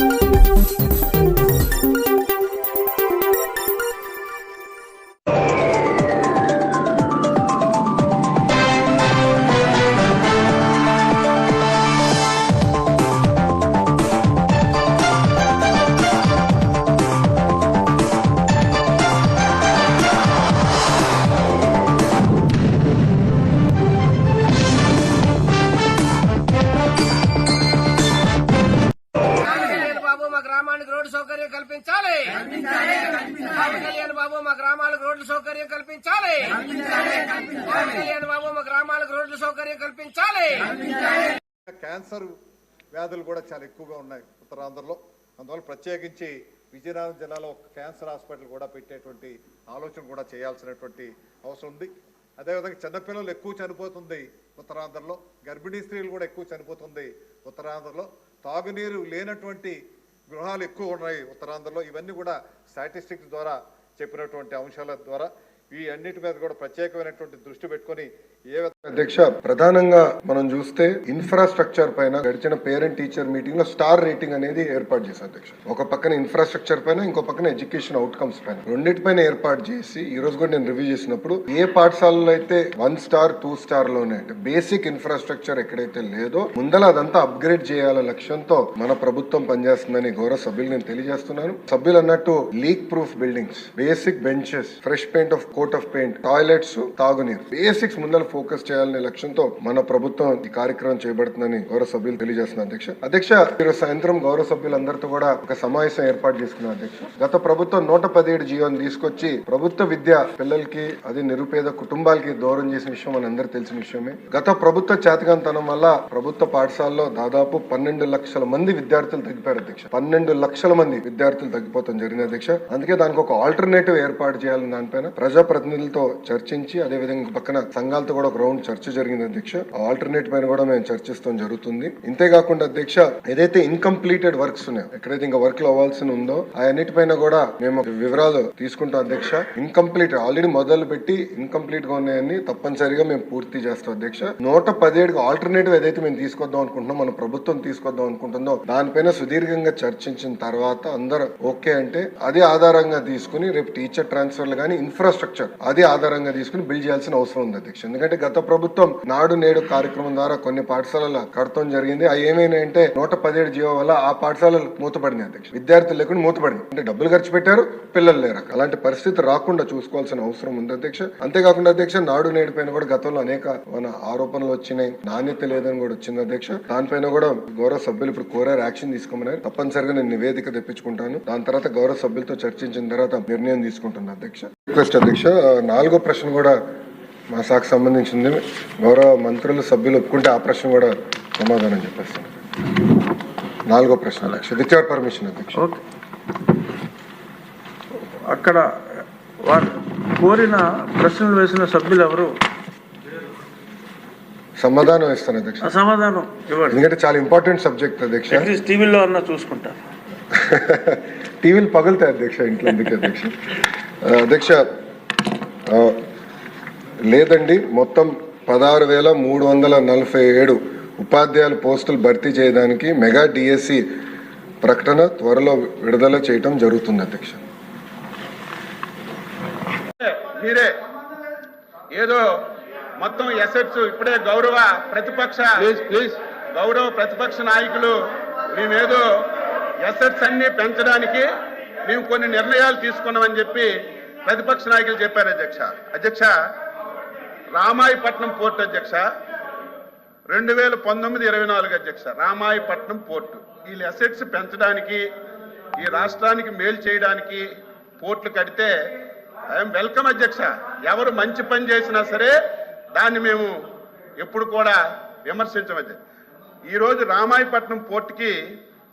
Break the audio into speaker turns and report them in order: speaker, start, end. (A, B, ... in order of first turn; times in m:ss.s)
0:29.4-0:40.7 A
0:41.7-0:42.3 B
0:42.9-1:08.8 B
1:08.8-3:06.6 C
3:07.3-3:12.4 C
3:13.7-3:15.6 C
3:18.3-3:22.3 D
3:24.6-3:25.7 C
3:25.6-3:26.8 D
3:26.7-3:28.5 C
3:28.3-3:29.8 D
3:30.3-3:34.6 C
3:35.7-3:36.0 C
3:37.1-3:43.8 C
3:44.6-3:47.4 C
3:50.0-3:50.7 E
3:51.9-3:52.3 E
3:53.0-3:59.2 E
3:59.8-4:01.3 E
4:01.8-4:03.7 E
4:04.2-4:06.3 E
4:07.5-4:09.0 E
4:10.3-4:15.0 E
4:15.8-4:17.5 E
4:18.0-4:18.7 E
4:19.5-4:22.3 E
4:22.9-4:23.5 E
4:24.2-4:26.0 E
4:26.7-4:28.4 E